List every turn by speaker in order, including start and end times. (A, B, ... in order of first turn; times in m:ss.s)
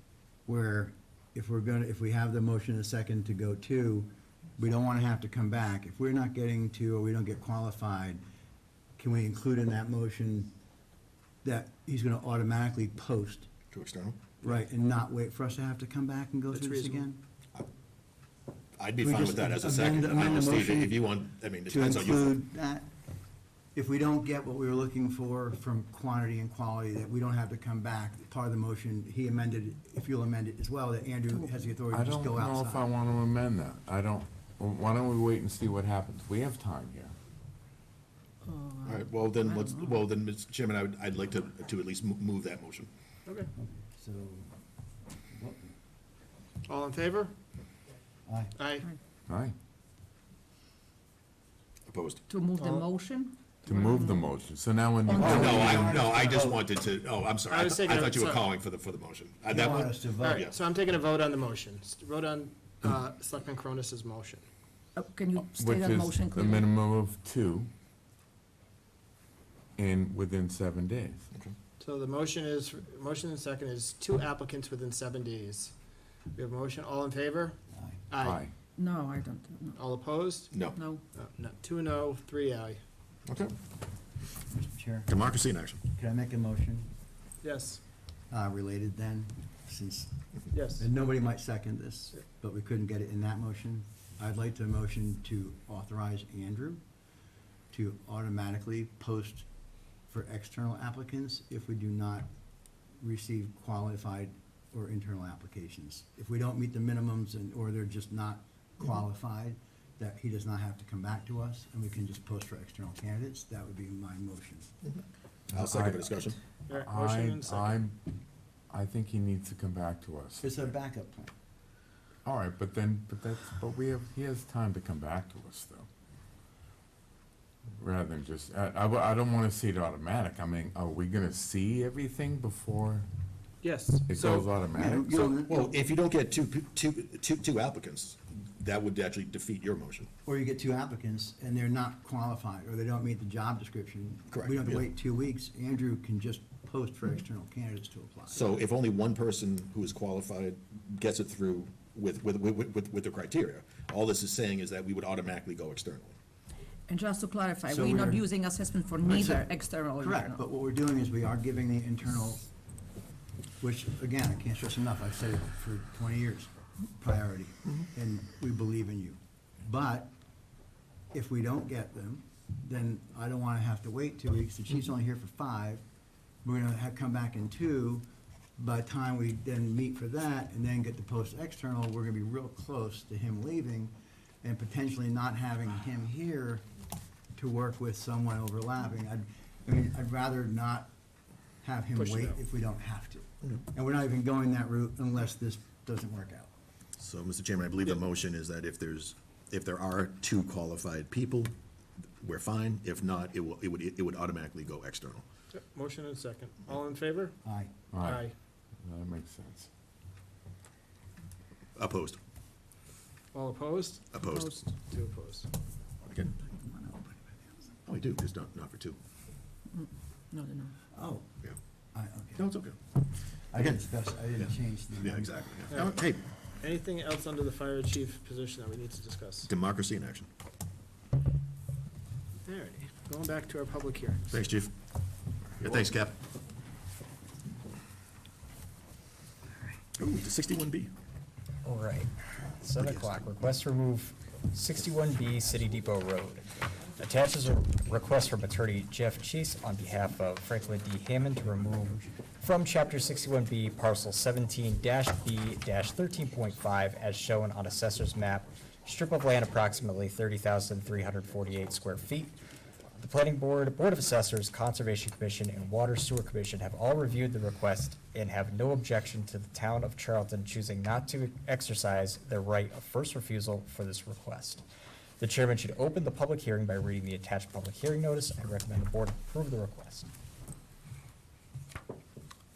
0:00.4-0:08.2 A
0:09.0-0:10.5 A
0:11.4-0:13.5 A
0:13.7-0:14.2 B
0:14.4-0:17.2 A
0:16.5-0:17.0 C
0:18.8-0:22.4 B
0:19.0-0:21.0 A
0:21.6-0:22.9 A
0:23.7-0:32.8 A
0:31.9-0:37.1 D
0:38.5-0:39.9 E
0:38.8-0:42.9 B
0:43.6-0:44.5 A
0:45.3-0:45.7 A
0:46.7-0:47.3 C
0:48.3-0:48.5 A
0:48.6-0:48.9 C
0:49.3-0:49.5 D
0:51.9-0:52.2 B
0:52.3-0:53.4 E
0:52.6-0:52.8 C
0:53.6-0:56.0 D
0:55.1-0:56.0 E
0:55.1-1:00.6 B
0:55.2-0:56.6 A
0:57.5-0:58.5 C
0:59.4-1:00.4 A
1:00.2-1:04.4 C
1:05.0-1:06.6 E
1:05.3-1:07.7 D
1:09.8-1:11.3 D
1:11.8-1:15.7 C
1:16.3-1:17.6 C
1:17.7-1:18.0 A
1:18.1-1:18.4 C
1:18.2-1:18.5 D
1:18.8-1:19.8 E
1:19.8-1:22.8 C
1:20.5-1:20.8 B
1:20.7-1:21.0 E
1:23.3-1:23.5 B
1:24.5-1:25.2 A
1:25.1-1:25.8 B
1:25.9-1:26.9 A
1:27.4-1:27.8 C
1:28.3-1:30.1 A
1:30.5-1:30.9 C
1:30.7-1:36.8 A
1:37.7-1:39.5 A
1:40.1-1:42.3 A
1:43.0-1:54.7 A
1:55.5-1:56.1 D
1:55.5-1:56.4 B
1:56.7-1:57.8 C
1:56.7-1:58.0 D
1:58.7-2:00.6 D
2:00.4-2:01.3 A
2:02.2-2:05.9 D
2:07.8-2:13.1 D
2:13.6-2:14.5 C
2:14.1-2:15.2 D
2:14.7-2:15.7 A
2:15.1-2:20.1 B
2:20.2-2:28.6 A
2:24.3-2:24.8 B
2:28.3-2:36.1 B
2:36.9-2:40.4 E
2:37.7-2:38.2 A
2:39.0-2:42.4 A
2:43.6-2:50.1 A
2:51.1-2:55.8 A
2:56.4-2:58.0 A
2:58.6-3:06.6 A
3:07.3-3:10.9 A
3:11.6-3:16.5 A
3:12.0-3:12.4 C
3:17.0-3:21.5 B
3:22.2-3:25.2 B
3:25.5-3:27.3 C
3:27.4-3:27.7 A
3:27.9-3:28.2 D
3:28.0-3:28.3 C
3:28.8-3:29.7 D
3:31.8-3:32.2 B
3:33.3-3:35.5 C
3:34.1-3:34.5 B
3:36.0-3:36.3 B
3:36.4-3:37.4 A
3:37.9-3:39.0 B
3:40.3-3:40.7 E
3:40.9-3:41.2 A
3:41.9-3:42.4 A
3:42.4-3:42.8 B
3:43.5-3:45.5 A
3:45.0-3:46.2 B
3:45.7-3:46.0 C
3:46.6-3:49.5 C
3:49.5-3:50.3 B
3:52.4-3:54.4 C
3:54.3-3:54.7 B
3:55.6-3:56.2 B
4:00.0-4:00.9 B
4:01.6-4:22.4 F
4:02.8-4:03.2 B
4:23.0-4:34.6 F
4:35.2-4:40.1 F